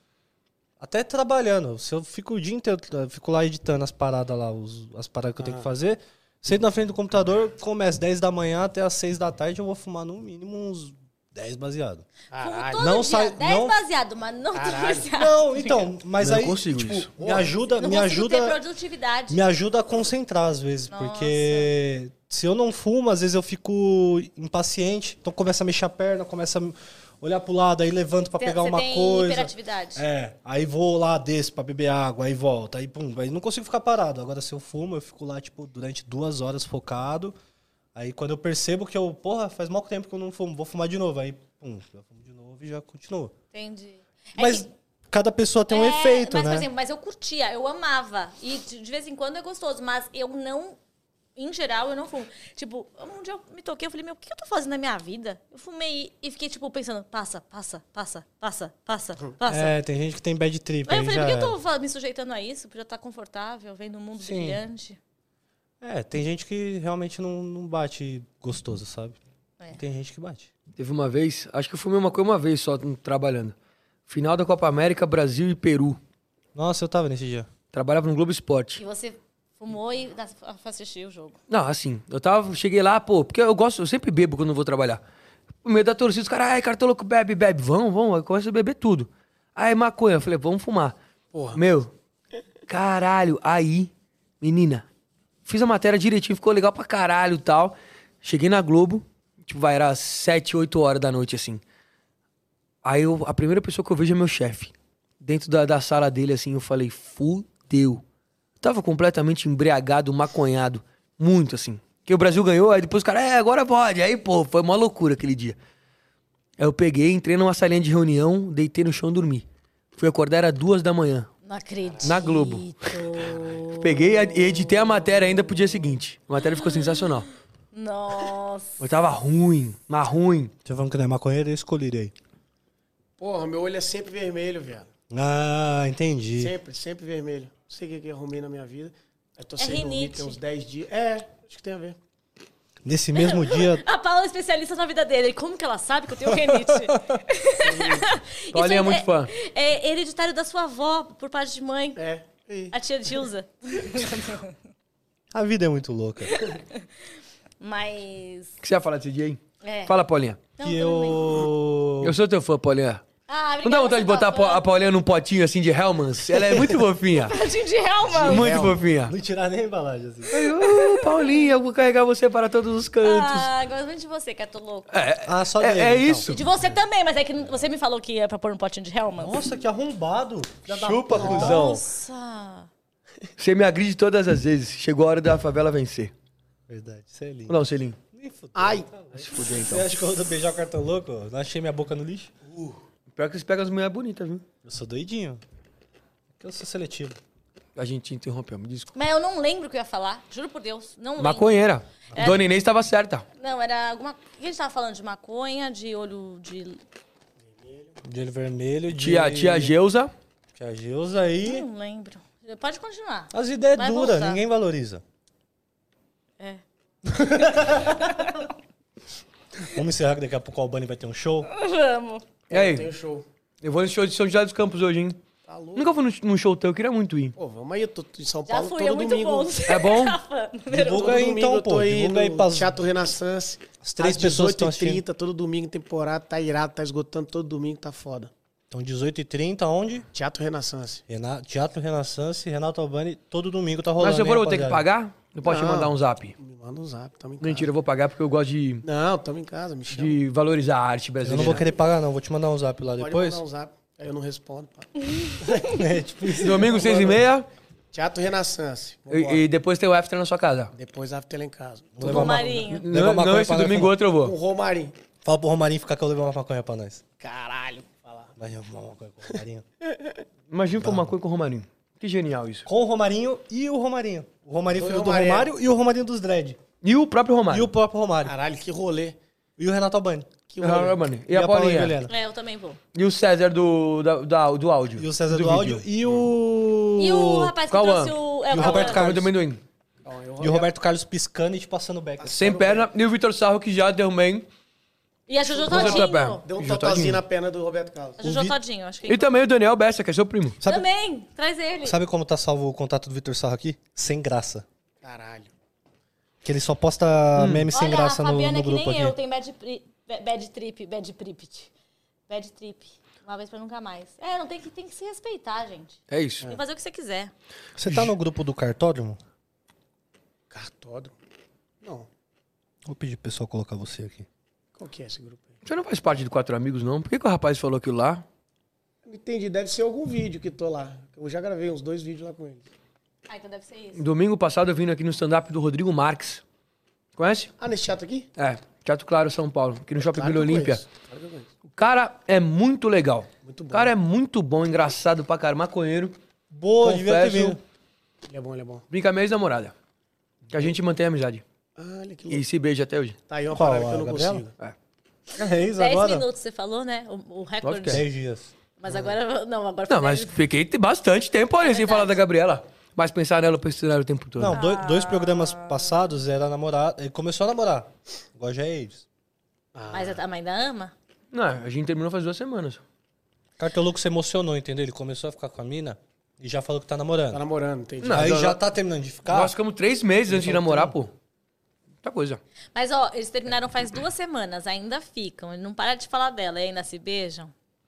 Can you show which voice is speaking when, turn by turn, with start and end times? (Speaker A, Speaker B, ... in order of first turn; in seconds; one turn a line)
Speaker A: 0.8-12.1
Speaker B: 5.4-5.7
Speaker B: 12.3-13.0
Speaker C: 12.4-15.9
Speaker A: 12.8-13.8
Speaker B: 14.5-15.1
Speaker A: 15.1-18.6
Speaker D: 16.2-17.1
Speaker B: 17.2-17.5
Speaker C: 17.8-19.4
Speaker A: 19.3-37.4
Speaker C: 20.9-21.7
Speaker C: 28.4-30.0
Speaker A: 38.0-43.3
Speaker C: 43.5-44.7
Speaker A: 44.4-46.7
Speaker C: 45.7-50.8
Speaker C: 51.4-59.7
Speaker A: 59.5-61.6
Speaker C: 60.9-65.0
Speaker A: 64.2-64.6
Speaker A: 65.8-69.2
Speaker A: 69.7-70.5
Speaker D: 70.8-73.5
Speaker D: 74.1-76.0
Speaker A: 76.5-77.5
Speaker D: 77.7-78.8
Speaker C: 78.8-81.4
Speaker D: 81.5-85.0
Speaker D: 85.6-91.0
Speaker B: 91.3-91.6
Speaker D: 91.5-91.9
Speaker D: 92.7-94.8
Speaker D: 95.5-101.6
Speaker D: 102.8-108.0
Speaker D: 108.6-115.6
Speaker D: 116.6-119.5
Speaker D: 120.0-121.3
Speaker C: 121.4-124.2
Speaker B: 121.9-122.2
Speaker D: 122.0-122.7
Speaker D: 123.8-127.3
Speaker C: 126.4-128.9
Speaker D: 128.8-130.5
Speaker A: 130.7-132.1
Speaker B: 133.2-134.9
Speaker A: 135.1-136.5
Speaker B: 136.4-142.0
Speaker C: 139.6-140.4
Speaker A: 142.8-143.8
Speaker C: 143.2-152.0
Speaker A: 146.3-147.2
Speaker B: 147.6-148.1
Speaker D: 148.5-149.3
Speaker B: 152.0-152.8
Speaker C: 152.7-154.6
Speaker A: 155.3-156.3
Speaker C: 156.3-156.9
Speaker C: 157.6-158.6
Speaker D: 158.6-160.4
Speaker C: 159.6-159.9
Speaker C: 160.6-161.4
Speaker A: 160.6-162.2
Speaker D: 162.0-163.1
Speaker C: 163.3-164.7
Speaker D: 163.6-167.3
Speaker A: 166.3-166.8
Speaker C: 167.3-168.5
Speaker B: 168.1-168.8
Speaker D: 168.2-169.1
Speaker A: 169.1-170.4
Speaker D: 170.3-173.5
Speaker C: 170.6-171.5
Speaker C: 173.0-175.1
Speaker D: 174.9-176.4
Speaker A: 175.2-176.8
Speaker C: 176.3-179.4
Speaker A: 179.2-181.8
Speaker D: 180.7-181.8
Speaker C: 181.1-182.7
Speaker D: 183.4-186.1
Speaker A: 186.7-187.6
Speaker D: 187.5-188.0
Speaker A: 188.1-192.3
Speaker B: 188.6-188.9
Speaker D: 189.1-189.9
Speaker D: 192.6-194.4
Speaker A: 194.6-195.4
Speaker A: 196.4-197.2
Speaker D: 197.8-198.9
Speaker C: 198.9-201.7
Speaker D: 201.2-203.2
Speaker A: 202.1-202.4
Speaker C: 203.4-206.8
Speaker B: 207.4-208.0
Speaker A: 208.1-209.8
Speaker D: 208.9-210.1
Speaker A: 210.6-211.7
Speaker C: 211.4-214.4
Speaker A: 213.3-215.0
Speaker A: 217.1-218.2
Speaker C: 217.9-218.5
Speaker A: 219.7-221.5
Speaker C: 221.5-222.2
Speaker B: 222.5-223.3
Speaker D: 222.5-222.9
Speaker D: 223.6-225.2
Speaker B: 225.5-225.9
Speaker D: 225.8-227.3
Speaker B: 227.4-229.6
Speaker C: 228.5-231.3
Speaker D: 229.7-230.2
Speaker A: 230.7-232.8
Speaker B: 230.9-238.3
Speaker A: 233.8-235.0
Speaker A: 238.7-240.1
Speaker B: 240.1-241.0
Speaker A: 241.1-244.8
Speaker D: 244.0-246.4
Speaker B: 245.4-247.7
Speaker D: 247.4-248.9
Speaker B: 248.8-250.2
Speaker D: 249.9-251.7
Speaker A: 251.2-253.4
Speaker B: 253.0-254.9
Speaker C: 255.0-255.7
Speaker B: 255.4-255.8
Speaker A: 255.7-256.9
Speaker D: 256.4-257.5
Speaker B: 256.6-257.2
Speaker B: 257.9-259.4
Speaker D: 259.1-260.7
Speaker B: 260.7-262.2
Speaker A: 261.9-263.9
Speaker C: 262.0-262.9
Speaker D: 262.1-264.4
Speaker B: 264.2-265.0
Speaker A: 265.2-267.0
Speaker B: 267.2-268.3
Speaker A: 268.4-269.6
Speaker B: 269.4-270.2
Speaker D: 270.5-272.7
Speaker A: 270.8-271.1
Speaker A: 272.7-276.6
Speaker B: 274.7-275.5
Speaker D: 276.8-277.7
Speaker A: 277.5-278.4
Speaker B: 278.2-279.2
Speaker A: 279.6-280.3
Speaker B: 280.5-281.1
Speaker D: 280.6-282.0
Speaker A: 281.3-282.1
Speaker C: 282.1-282.8
Speaker D: 282.9-285.9
Speaker A: 285.0-287.5
Speaker C: 287.0-289.1
Speaker D: 287.7-289.6
Speaker A: 288.5-289.3
Speaker B: 290.0-290.7
Speaker A: 290.4-292.4
Speaker B: 292.2-292.9
Speaker D: 292.4-294.5
Speaker C: 295.3-296.4
Speaker B: 295.5-298.2
Speaker D: 295.7-297.2
Speaker C: 298.2-299.3
Speaker A: 298.2-298.6
Speaker D: 299.1-300.6
Speaker A: 300.6-300.9
Speaker C: 300.6-302.0
Speaker A: 301.8-304.6
Speaker B: 305.0-305.5
Speaker A: 306.4-309.1
Speaker D: 307.4-307.7
Speaker C: 307.7-311.7
Speaker C: 312.3-317.3
Speaker D: 316.1-316.5
Speaker A: 317.8-319.2
Speaker D: 317.9-318.1
Speaker B: 320.5-321.1
Speaker B: 321.8-322.1
Speaker A: 322.9-324.3
Speaker B: 324.8-325.6
Speaker D: 325.6-328.2
Speaker B: 329.1-332.7
Speaker C: 333.3-334.0
Speaker D: 334.0-336.4
Speaker D: 337.2-337.5
Speaker B: 337.6-338.3
Speaker D: 338.4-340.8
Speaker B: 340.0-341.5
Speaker D: 341.8-346.2
Speaker B: 343.4-343.9
Speaker A: 346.5-347.6
Speaker D: 346.8-347.6
Speaker B: 348.3-348.9
Speaker D: 348.9-349.8
Speaker D: 350.5-351.4
Speaker B: 351.8-352.4
Speaker D: 352.3-353.2
Speaker B: 353.3-354.5
Speaker A: 353.5-354.4
Speaker A: 355.4-356.3
Speaker C: 355.8-358.0
Speaker D: 357.6-358.0
Speaker A: 357.9-358.5
Speaker C: 358.8-360.4
Speaker B: 358.9-359.2
Speaker D: 359.9-364.6
Speaker C: 361.6-362.2
Speaker A: 364.4-369.1
Speaker C: 364.5-366.1
Speaker B: 369.7-370.2
Speaker C: 369.9-370.9
Speaker D: 371.3-372.8
Speaker A: 373.6-377.4
Speaker B: 377.3-378.4
Speaker D: 378.0-378.6
Speaker A: 378.1-379.6
Speaker D: 379.3-381.1
Speaker A: 380.3-380.9
Speaker D: 382.0-382.4
Speaker C: 382.8-387.5